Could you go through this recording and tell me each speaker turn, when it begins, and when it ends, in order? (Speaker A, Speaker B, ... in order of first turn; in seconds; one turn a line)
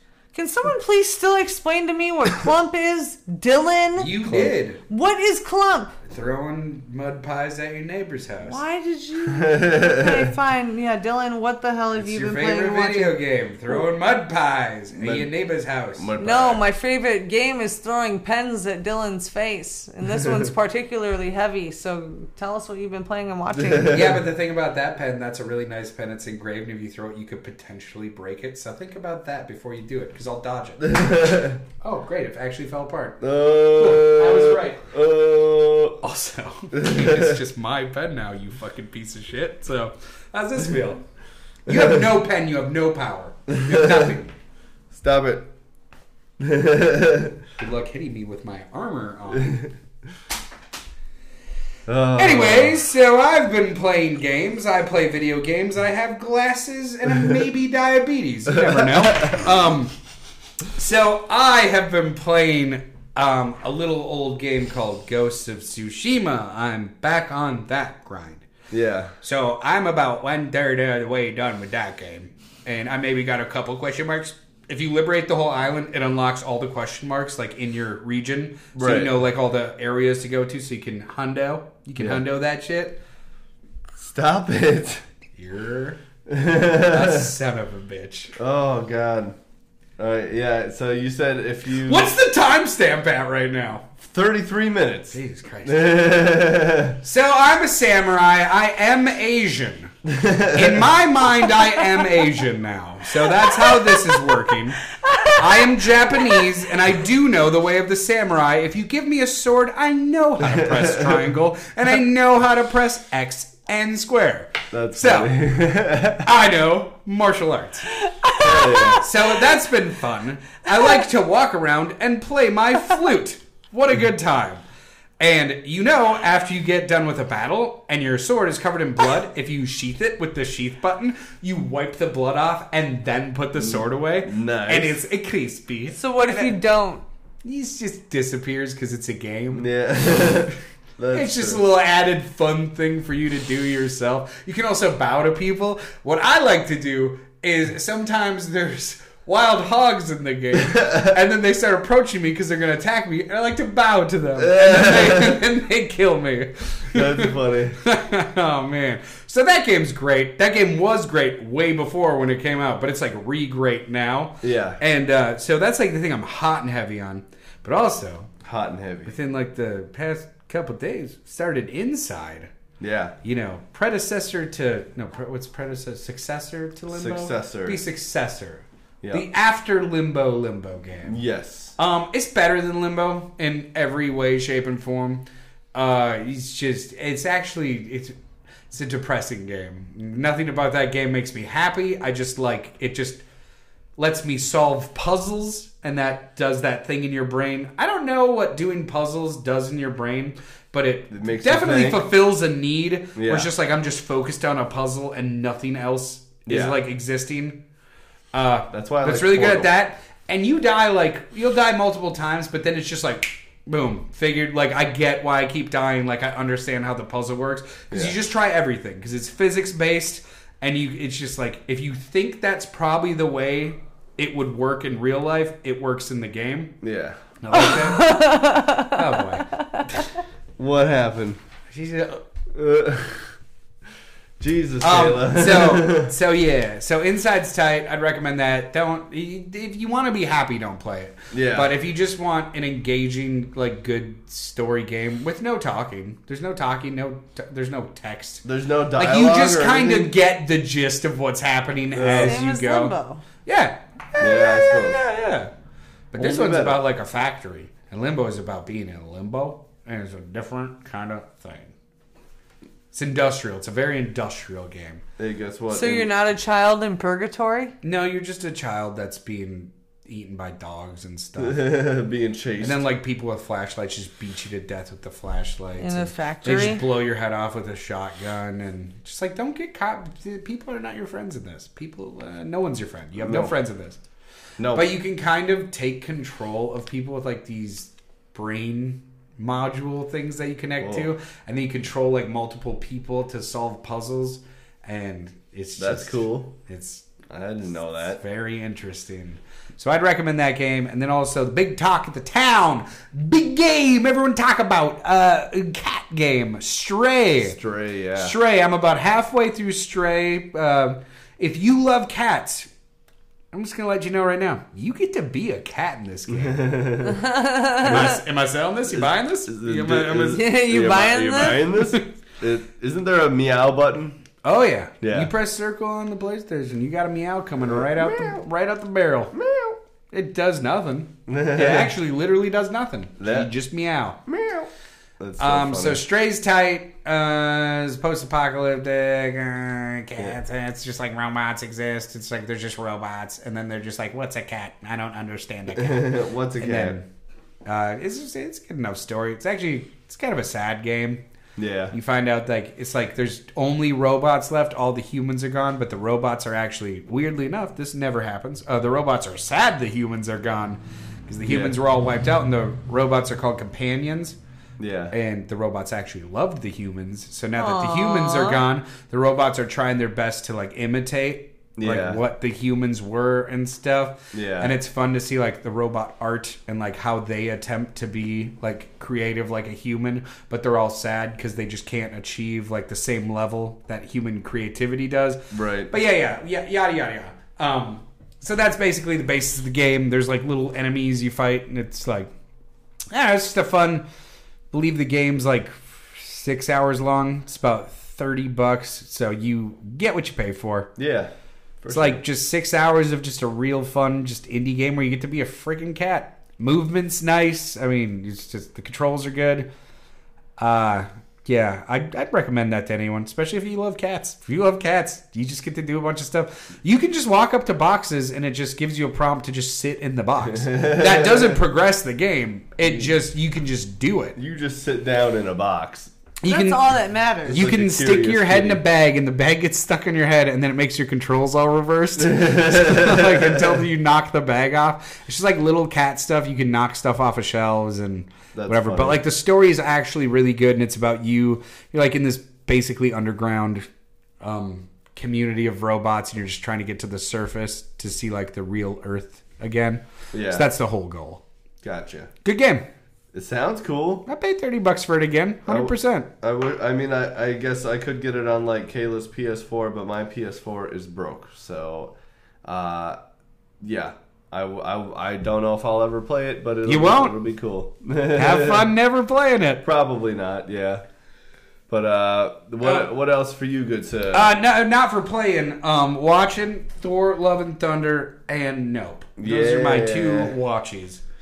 Speaker A: 0.3-6.0
Speaker B: 4.0-4.8
Speaker B: 6.0-8.6
Speaker A: 8.4-13.2
Speaker C: 9.3-10.3
Speaker B: 12.0-16.1
Speaker C: 14.9-15.3
Speaker C: 16.0-16.6
Speaker A: 16.2-24.1
Speaker C: 20.2-20.4
Speaker C: 23.6-24.2
Speaker B: 23.9-30.9
Speaker C: 30.8-31.6
Speaker B: 31.8-34.9
Speaker C: 33.2-36.0
Speaker B: 36.0-41.0
Speaker C: 36.7-37.4
Speaker B: 41.7-44.3
Speaker C: 41.7-42.0
Speaker C: 43.5-44.1
Speaker C: 44.9-45.5
Speaker C: 46.4-47.4
Speaker B: 47.6-49.7
Speaker C: 49.4-49.7
Speaker C: 51.9-52.8
Speaker B: 52.2-59.9
Speaker C: 58.5-59.5
Speaker B: 60.7-68.5
Speaker C: 68.7-69.1
Speaker B: 69.2-83.0
Speaker C: 78.8-79.2
Speaker C: 84.0-85.0
Speaker B: 85.4-86.0
Speaker C: 86.3-87.3
Speaker B: 86.8-88.4
Speaker C: 88.4-89.3
Speaker C: 90.0-92.2
Speaker B: 91.8-93.9
Speaker C: 94.0-97.0
Speaker B: 95.1-96.0
Speaker B: 97.0-99.9
Speaker C: 100.0-100.9
Speaker B: 100.5-115.3
Speaker A: 103.2-105.6
Speaker A: 106.1-106.4
Speaker C: 110.5-111.2
Speaker C: 114.7-116.3
Speaker B: 116.2-117.9
Speaker A: 117.9-119.1
Speaker C: 118.4-119.0
Speaker B: 119.0-124.6
Speaker B: 125.2-136.6
Speaker C: 133.6-135.0
Speaker A: 135.9-137.0
Speaker B: 137.4-139.7
Speaker C: 139.5-141.6
Speaker B: 141.1-168.3
Speaker C: 150.8-151.1
Speaker C: 154.4-155.4
Speaker C: 156.9-157.8
Speaker C: 164.4-164.8
Speaker C: 168.4-169.2
Speaker B: 169.1-172.5
Speaker C: 172.8-173.2
Speaker B: 173.2-181.2
Speaker C: 176.9-177.8
Speaker C: 181.1-181.8
Speaker B: 181.8-188.2
Speaker B: 188.7-193.2
Speaker B: 194.0-207.6
Speaker C: 201.1-202.1
Speaker C: 203.2-203.5
Speaker C: 206.5-206.8
Speaker B: 208.3-226.8
Speaker C: 208.7-209.7
Speaker C: 217.9-218.2
Speaker C: 226.8-227.2
Speaker B: 227.4-230.1
Speaker A: 227.5-230.0
Speaker C: 230.6-231.4
Speaker B: 231.7-232.2
Speaker C: 232.5-233.3
Speaker C: 234.4-236.1
Speaker B: 234.8-248.4
Speaker C: 241.3-241.7
Speaker C: 248.4-250.1
Speaker B: 249.0-255.5
Speaker C: 251.9-252.4
Speaker A: 252.2-253.2
Speaker C: 254.2-255.0
Speaker B: 256.1-261.7
Speaker C: 256.2-256.8
Speaker B: 262.9-265.0
Speaker C: 265.2-266.1
Speaker A: 265.7-267.8
Speaker B: 267.8-271.6
Speaker C: 271.4-272.8
Speaker B: 272.6-284.0
Speaker A: 275.8-276.8
Speaker C: 283.2-283.5
Speaker C: 284.6-284.9
Speaker B: 284.7-297.1
Speaker C: 290.8-291.1
Speaker C: 295.8-296.5
Speaker C: 297.3-298.2
Speaker B: 298.2-307.6
Speaker C: 307.4-308.4
Speaker B: 308.2-312.7
Speaker B: 313.5-316.9
Speaker C: 316.3-317.2
Speaker A: 317.0-318.2
Speaker B: 317.7-320.4
Speaker C: 318.9-324.2
Speaker A: 320.3-321.6
Speaker B: 324.4-329.3
Speaker C: 325.0-325.3
Speaker C: 327.6-328.4
Speaker C: 329.3-329.8
Speaker B: 330.1-334.2
Speaker C: 331.3-331.9
Speaker C: 333.2-333.6
Speaker C: 334.3-336.0
Speaker B: 335.4-347.1
Speaker C: 345.8-347.0
Speaker B: 347.6-351.2
Speaker C: 351.6-351.9
Speaker B: 351.9-364.4
Speaker C: 361.5-361.8
Speaker C: 364.8-365.1
Speaker B: 365.1-392.3
Speaker A: 367.6-368.6
Speaker C: 371.8-372.2
Speaker C: 374.3-374.8
Speaker C: 385.5-385.9
Speaker B: 393.1-394.1
Speaker B: 394.7-400.9
Speaker C: 401.0-402.2
Speaker B: 401.9-409.7
Speaker B: 410.6-424.4
Speaker C: 420.5-421.6
Speaker C: 422.8-423.1
Speaker C: 424.4-426.1
Speaker B: 426.4-427.0
Speaker A: 426.4-427.6
Speaker C: 427.5-428.8
Speaker B: 427.5-443.9
Speaker C: 432.2-433.8
Speaker C: 438.6-439.2
Speaker B: 444.4-451.4
Speaker C: 450.3-450.7
Speaker C: 451.8-452.3
Speaker B: 452.4-452.9
Speaker C: 453.3-454.3
Speaker B: 454.3-456.3
Speaker C: 455.7-463.2
Speaker C: 463.8-468.9
Speaker B: 466.9-467.4
Speaker B: 468.4-469.8
Speaker C: 469.8-471.0
Speaker C: 471.9-474.5
Speaker B: 472.8-473.1
Speaker B: 474.3-481.2
Speaker C: 479.4-480.6